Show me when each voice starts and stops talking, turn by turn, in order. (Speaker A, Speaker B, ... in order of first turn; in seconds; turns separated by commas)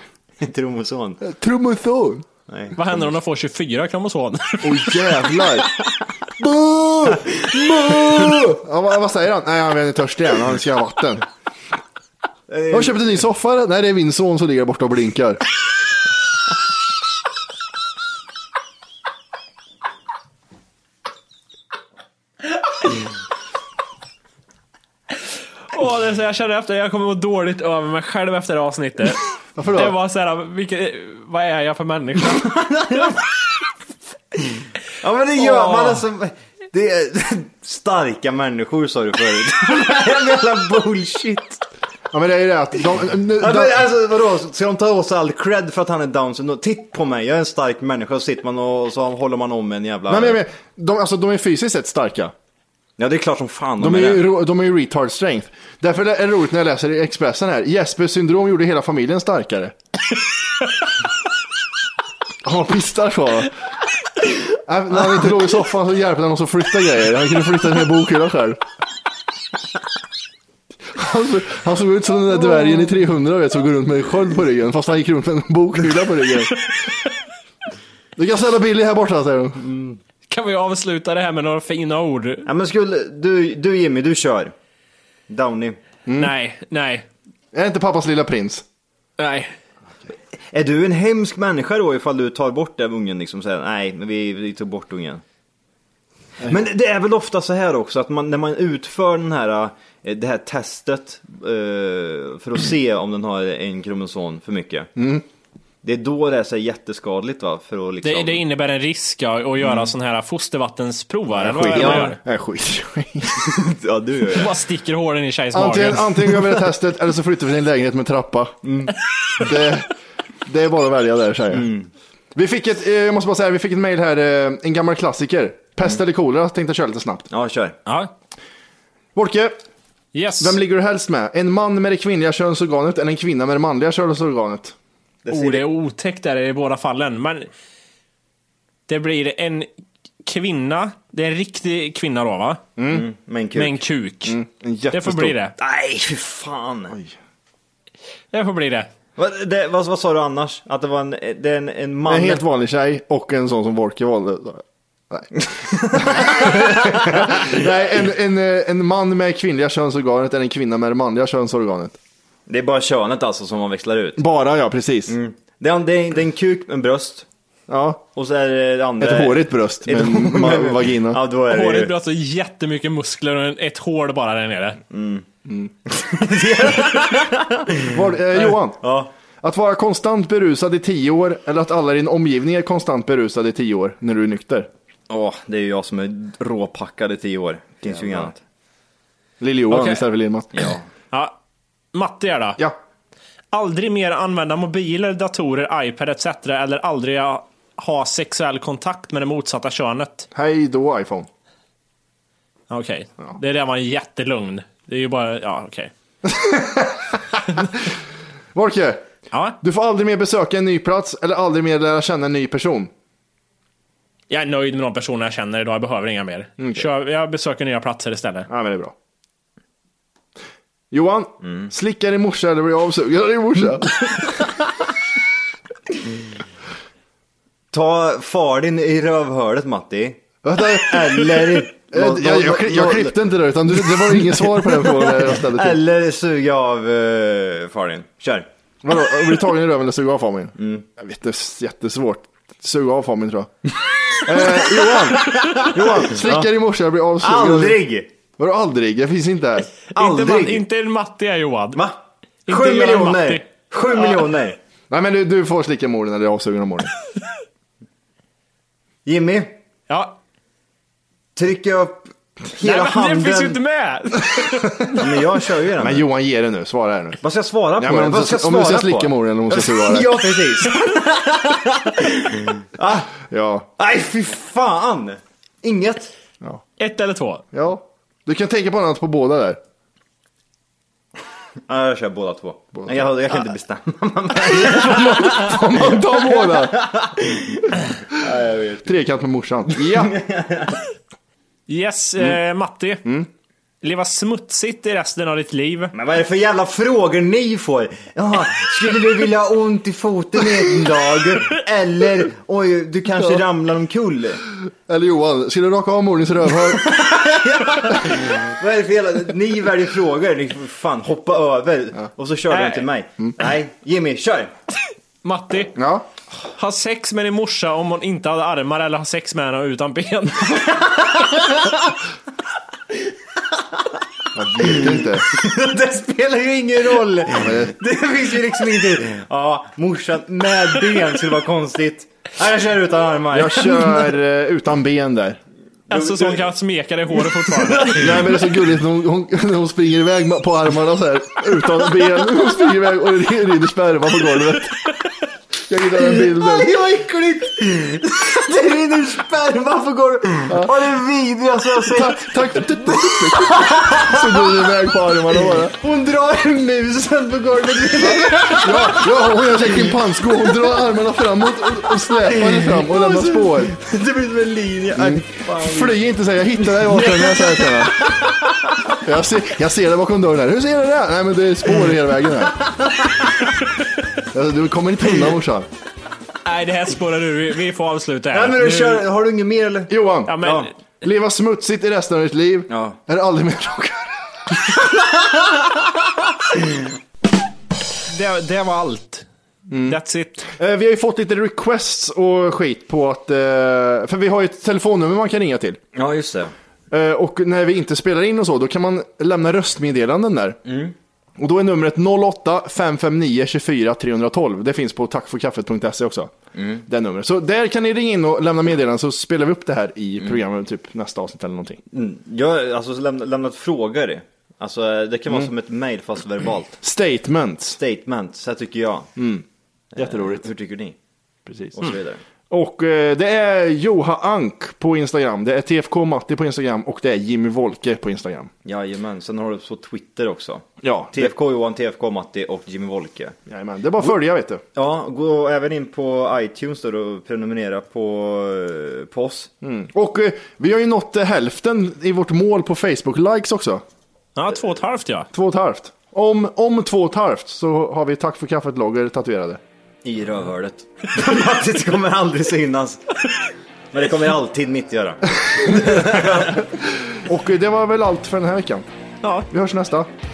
Speaker A: 0.4-1.2, Speaker B: 1.2-2.2, Speaker A: 2.5-2.8, Speaker C: 2.7-4.9, Speaker B: 4.6-5.7, Speaker B: 6.4-11.2, Speaker A: 12.5-13.1, Speaker B: 12.7-15.4, Speaker C: 25.7-32.5, Speaker B: 29.6-29.9, Speaker A: 32.6-33.1, Speaker A: 35.0-41.6, Speaker C: 35.4-36.0, Speaker B: 42.1-43.8, Speaker A: 43.4-50.4, Speaker B: 50.1-52.3, Speaker A: 53.0-54.2, Speaker B: 53.8-59.7, Speaker B: 62.4-63.5, Speaker B: 64.6-68.6, Speaker B: 70.9-76.6, Speaker B: 78.2-79.6, Speaker A: 79.6-80.0, Speaker C: 80.3-82.5, Speaker A: 82.5-84.5, Speaker A: 85.3-85.8, Speaker B: 86.1-86.3, Speaker C: 86.2-87.0, Speaker B: 87.5-88.6, Speaker C: 89.2-89.5, Speaker A: 90.5-95.2, Speaker A: 96.5-104.9, Speaker B: 105.0-105.2, Speaker A: 105.8-108.4, Speaker C: 108.0-112.2, Speaker A: 109.6-109.9, Speaker B: 111.3-113.5, Speaker A: 111.8-112.1, Speaker A: 113.4-114.5, Speaker C: 114.3-116.3, Speaker B: 115.5-118.6, Speaker A: 118.6-118.9, Speaker B: 119.4-119.9, Speaker B: 120.4-121.7, Speaker A: 121.5-121.9, Speaker B: 122.3-127.3, Speaker A: 127.3-127.8, Speaker C: 127.8-128.1, Speaker B: 129.1-129.6, Speaker C: 130.1-130.6, Speaker B: 130.4-134.7, Speaker A: 135.2-135.7, Speaker C: 135.3-137.5, Speaker C: 138.9-139.7, Speaker C: 140.2-142.6, Speaker B: 142.8-143.1, Speaker A: 142.9-143.8, Speaker C: 143.5-144.4, Speaker B: 144.2-145.3, Speaker C: 144.9-145.5, Speaker A: 145.6-146.9, Speaker C: 148.3-148.9, Speaker A: 149.2-152.4, Speaker B: 152.1-155.3, Speaker A: 155.4-157.6, Speaker B: 155.9-162.0, Speaker A: 162.5-164.2, Speaker B: 164.2-165.1, Speaker A: 165.1-167.2, Speaker B: 167.7-168.0, Speaker A: 168.2-171.9, Speaker B: 169.0-171.2, Speaker C: 171.5-174.8, Speaker A: 174.9-175.2, Speaker A: 175.9-179.1, Speaker B: 177.9-178.8, Speaker B: 179.4-184.7, Speaker A: 185.1-188.4, Speaker B: 188.0-188.3, Speaker B: 189.4-190.5, Speaker C: 189.7-190.0, Speaker A: 190.6-190.8, Speaker C: 191.1-191.4, Speaker C: 191.9-192.6, Speaker C: 193.5-200.3, Speaker B: 200.3-201.3, Speaker C: 202.7-205.9, Speaker B: 206.2-207.4, Speaker B: 208.5-209.1, Speaker C: 209.3-209.6, Speaker B: 209.6-212.9, Speaker C: 214.3-218.5, Speaker B: 216.6-216.8, Speaker B: 218.5-218.9, Speaker B: 220.9-224.3, Speaker A: 221.4-221.7, Speaker A: 227.7-233.2, Speaker B: 230.4-235.8, Speaker A: 233.8-238.5, Speaker B: 238.8-243.5, Speaker A: 240.6-240.8, Speaker B: 244.2-247.8, Speaker A: 245.1-246.5, Speaker A: 247.2-248.1, Speaker B: 248.4-249.7, Speaker A: 249.9-250.6, Speaker C: 249.9-251.8, Speaker C: 252.5-253.4, Speaker A: 252.5-254.6, Speaker B: 254.9-256.9, Speaker A: 259.0-259.6, Speaker C: 259.9-260.2, Speaker A: 261.4-263.6, Speaker C: 262.6-265.0, Speaker A: 265.0-266.1, Speaker B: 265.8-267.2, Speaker A: 267.2-273.2, Speaker B: 267.8-270.2, Speaker B: 273.3-273.7, Speaker A: 273.8-276.1, Speaker C: 276.8-277.4, Speaker B: 277.5-279.6, Speaker A: 281.7-288.9, Speaker B: 282.8-283.1, Speaker B: 284.5-286.8, Speaker B: 288.8-290.1, Speaker A: 289.8-290.8, Speaker C: 291.7-293.0, Speaker C: 293.8-295.9, Speaker A: 295.9-304.4, Speaker B: 304.9-306.8, Speaker A: 306.8-314.5, Speaker C: 312.5-312.9, Speaker C: 315.2-315.8, Speaker B: 315.8-316.0, Speaker C: 316.4-320.7, Speaker A: 320.7-321.7, Speaker B: 324.3-325.2, Speaker A: 324.6-334.1, Speaker B: 327.3-327.7, Speaker B: 333.3-335.4, Speaker A: 335.9-336.4, Speaker C: 335.9-338.0, Speaker A: 337.3-338.3, Speaker B: 338.0-344.7, Speaker B: 345.7-346.7, Speaker A: 346.0-354.7, Speaker B: 351.8-355.8, Speaker A: 355.4-359.8, Speaker B: 358.6-363.7, Speaker A: 362.2-366.0, Speaker B: 364.9-368.0, Speaker A: 368.0-368.3, Speaker B: 369.0-372.6, Speaker A: 372.7-373.3, Speaker B: 374.3-375.7, Speaker C: 376.4-379.0, Speaker A: 378.3-380.7, Speaker B: 379.9-380.5, Speaker C: 380.3-380.7, Speaker B: 381.0-384.6, Speaker A: 382.7-383.0, Speaker C: 388.1-389.2, Speaker B: 389.7-390.0, Speaker C: 389.8-390.5, Speaker B: 390.5-395.8, Speaker A: 395.9-396.5, Speaker B: 396.9-400.6, Speaker A: 400.6-400.9, Speaker B: 401.4-406.3, Speaker A: 406.5-406.8, Speaker B: 406.9-411.8, Speaker A: 411.9-416.8, Speaker B: 416.8-417.8, Speaker A: 417.8-419.1, Speaker B: 419.2-419.4, Speaker A: 419.9-420.9, Speaker B: 420.0-420.5, Speaker B: 421.5-421.9, Speaker A: 421.8-422.2, Speaker B: 422.5-428.5, Speaker A: 428.6-433.4, Speaker B: 430.8-431.3, Speaker B: 433.5-434.6, Speaker A: 434.8-439.5, Speaker B: 439.6-443.8, Speaker C: 444.4-445.3, Speaker B: 445.3-449.6, Speaker A: 450.0-453.0, Speaker A: 453.9-456.5, Speaker B: 455.4-458.9, Speaker B: 459.5-460.1